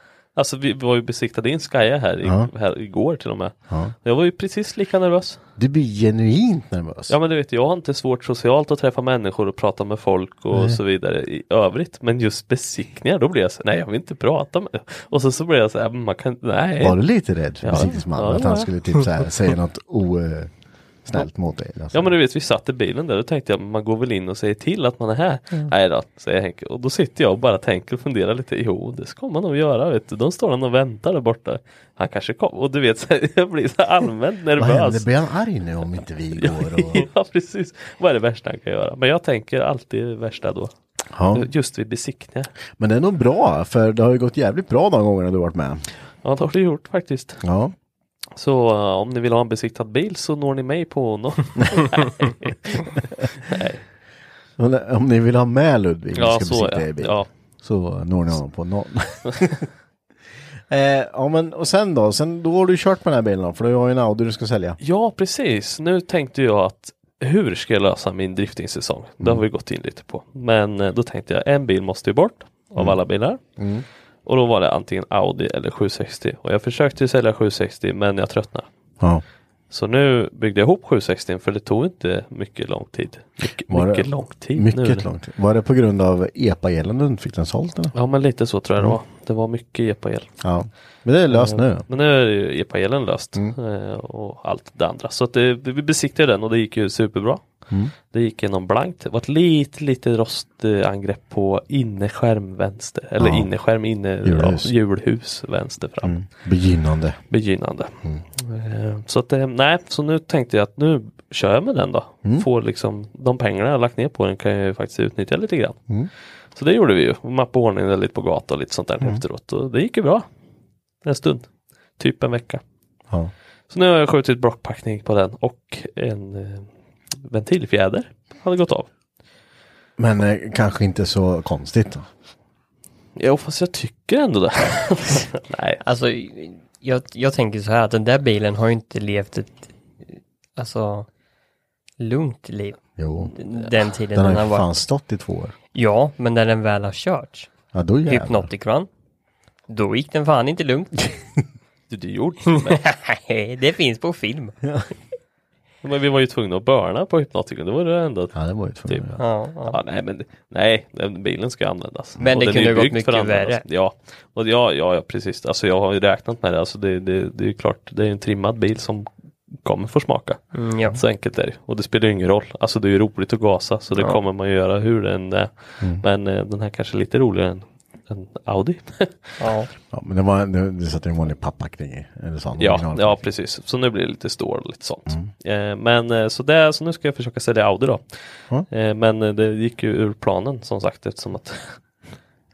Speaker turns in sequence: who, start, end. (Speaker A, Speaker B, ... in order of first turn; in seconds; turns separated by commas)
Speaker A: 0.4-3.5, Speaker B: 2.2-2.5, Speaker A: 4.0-5.4, Speaker B: 5.6-7.2, Speaker A: 7.1-17.0, Speaker B: 10.5-10.8, Speaker B: 16.8-20.5, Speaker A: 17.6-18.7, Speaker B: 21.1-22.1, Speaker A: 21.9-35.1, Speaker B: 34.6-37.1, Speaker A: 36.4-40.7, Speaker B: 41.1-41.5, Speaker A: 41.3-42.5, Speaker B: 42.8-45.9, Speaker A: 46.2-47.4, Speaker B: 47.4-47.8, Speaker A: 48.4-53.8, Speaker B: 54.6-59.7, Speaker A: 56.1-57.3, Speaker B: 60.7-64.8, Speaker A: 64.8-73.4, Speaker B: 73.6-73.9, Speaker A: 74.3-78.7, Speaker A: 79.7-85.1, Speaker B: 83.7-88.0, Speaker A: 88.0-90.3, Speaker B: 90.4-91.9, Speaker A: 91.3-97.4, Speaker A: 98.1-106.1, Speaker B: 103.2-103.5, Speaker B: 104.2-104.7, Speaker B: 106.0-107.2, Speaker A: 107.3-115.8, Speaker A: 116.6-120.2, Speaker A: 121.0-121.5, Speaker A: 122.0-122.6, Speaker A: 123.7-126.7, Speaker A: 127.2-128.9, Speaker B: 130.0-132.1, Speaker A: 133.2-135.8, Speaker C: 135.8-139.7, Speaker C: 140.6-141.1, Speaker C: 142.0-144.7, Speaker B: 143.0-143.3, Speaker B: 144.1-145.6, Speaker C: 145.7-147.5, Speaker B: 147.7-148.5, Speaker C: 148.1-148.9, Speaker C: 149.7-151.0, Speaker A: 151.9-152.8, Speaker C: 152.5-154.6, Speaker A: 155.8-158.4, Speaker B: 158.3-159.2, Speaker A: 158.9-169.1, Speaker C: 159.2-159.8, Speaker C: 162.2-163.6, Speaker A: 169.6-179.5, Speaker C: 170.6-171.0, Speaker C: 179.4-179.7, Speaker B: 179.9-183.2, Speaker A: 182.6-188.0, Speaker A: 188.7-191.8